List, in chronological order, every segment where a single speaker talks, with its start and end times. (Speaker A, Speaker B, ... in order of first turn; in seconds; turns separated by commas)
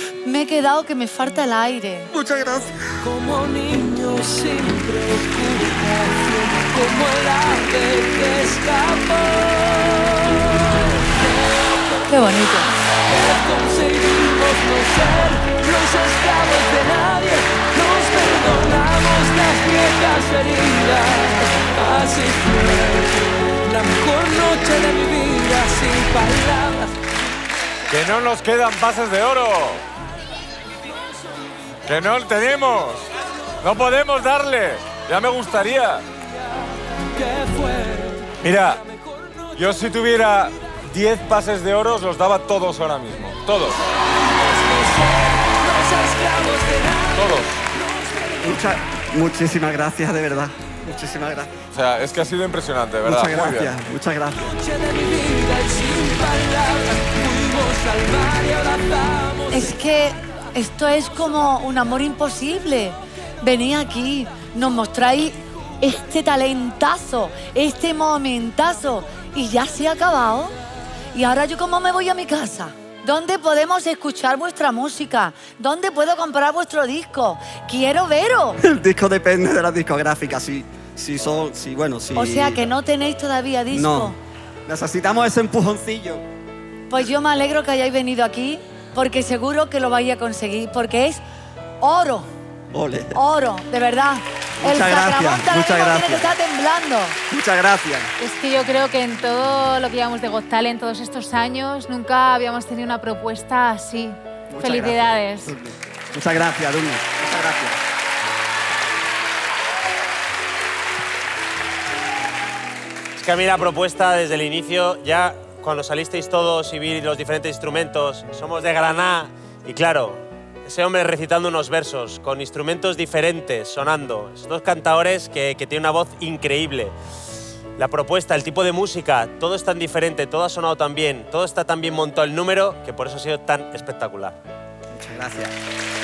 Speaker A: 0.2-2.1, Speaker B: 2.1-2.9, Speaker C: 3.0-11.9, Speaker A: 12.1-12.7, Speaker C: 13.1-27.0, Speaker D: 27.9-29.8, Speaker D: 31.9-33.1, Speaker D: 33.6-36.0, Speaker C: 37.1-38.3, Speaker D: 38.4-38.8, Speaker C: 39.0-39.4, Speaker D: 39.5-43.8, Speaker C: 43.9-48.4, Speaker D: 47.1-47.6, Speaker B: 48.4-51.5, Speaker D: 51.7-53.7, Speaker B: 53.0-54.5, Speaker C: 54.6-59.6, Speaker A: 59.5-70.5, Speaker A: 71.1-78.6, Speaker B: 78.6-82.7, Speaker A: 82.1-84.2, Speaker B: 83.7-86.2, Speaker A: 86.9-91.2, Speaker A: 91.8-92.3, Speaker B: 92.7-93.2, Speaker A: 93.1-97.2, Speaker B: 94.6-96.3, Speaker B: 97.3-98.1, Speaker E: 98.2-105.5, Speaker B: 104.5-107.8, Speaker F: 113.2-126.9, Speaker F: 127.8-134.3, Speaker B: 134.9-135.5